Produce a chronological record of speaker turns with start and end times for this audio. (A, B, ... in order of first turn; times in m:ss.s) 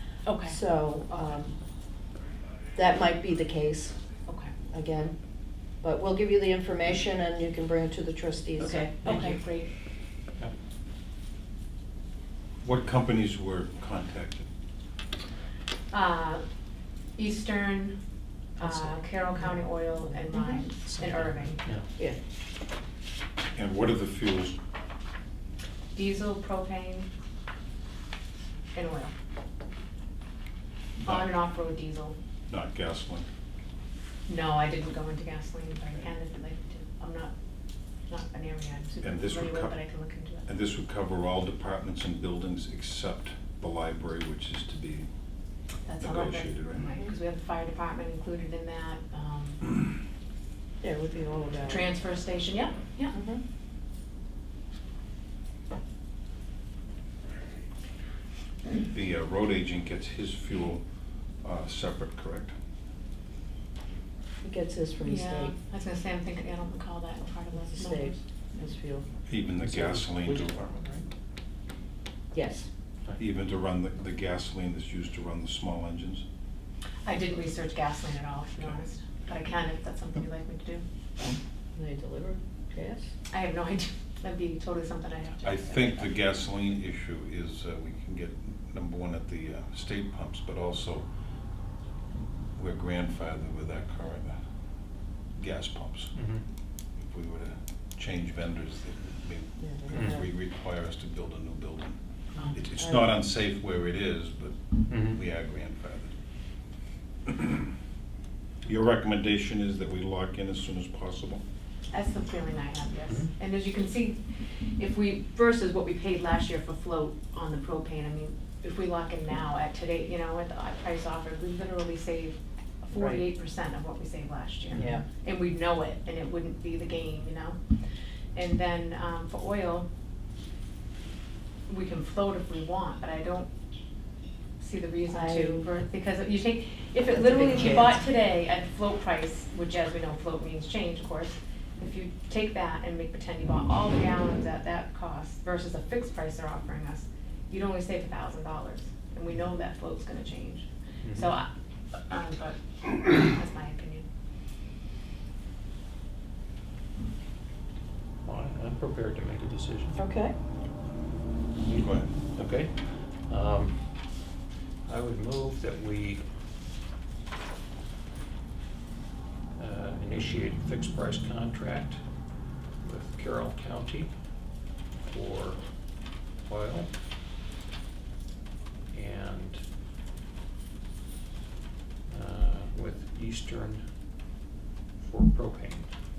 0:00.2-0:00.6 A
0:00.4-0:01.6 B
0:02.7-0:04.0 B
0:04.2-0:04.6 A
0:04.7-0:05.2 B
0:05.8-0:09.2 B
0:08.6-0:09.7 A
0:09.0-0:09.4 C
0:12.6-0:14.5 D
0:15.9-0:16.4 A
0:17.2-0:18.0 A
0:18.6-0:21.6 A
0:20.0-0:20.6 B
0:20.9-0:21.8 C
0:23.5-0:24.6 D
0:25.9-0:27.1 A
0:28.7-0:29.1 A
0:31.0-0:31.3 D
0:31.0-0:32.2 A
0:32.5-0:33.3 D
0:34.3-0:37.3 A
0:38.1-0:40.4 A
0:39.0-0:39.8 D
0:40.4-0:45.1 D
0:45.8-0:49.7 A
0:46.0-0:46.9 D
0:50.8-0:51.9 B
0:51.6-0:53.2 A
0:53.1-0:53.4 B
0:58.8-1:00.8 D
1:01.4-1:02.5 D
1:04.4-1:05.6 B
1:05.0-1:08.2 A
1:07.6-1:09.1 B
1:09.3-1:10.7 D
1:09.6-1:10.0 C
1:10.2-1:11.0 B
1:12.3-1:12.7 B
1:13.2-1:16.2 D
1:17.0-1:20.8 A
1:21.7-1:23.1 B
1:23.3-1:26.1 A
1:25.4-1:31.0 D
1:32.5-1:34.4 D
1:35.4-1:36.1 D
1:36.1-1:36.4 C
1:37.0-1:42.0 D
1:39.6-1:40.2 B
1:39.9-1:40.2 C
1:42.5-1:46.1 D
1:42.8-1:43.1 B
1:44.9-1:45.2 C
1:47.3-1:47.6 D
1:48.6-1:51.4 D
1:51.9-2:07.6 A
2:02.9-2:03.2 B
2:04.7-2:05.0 B
2:08.3-2:09.8 A
2:11.7-2:13.5 A
2:14.6-2:34.0 A
2:15.1-2:15.7 B
2:17.1-2:18.0 B
2:31.0-2:31.3 C
2:38.2-2:40.0 C
2:40.0-2:40.3 B
2:41.7-2:42.1 D
2:42.3-2:44.2 C
2:44.8-2:46.2 C
2:49.6-2:52.0 C
2:52.8-2:54.1 C
2:55.0-2:55.6 C
2:56.4-2:56.9 C
2:58.9-2:59.6 C
3:02.1-3:03.8 C
3:05.0-3:05.9 C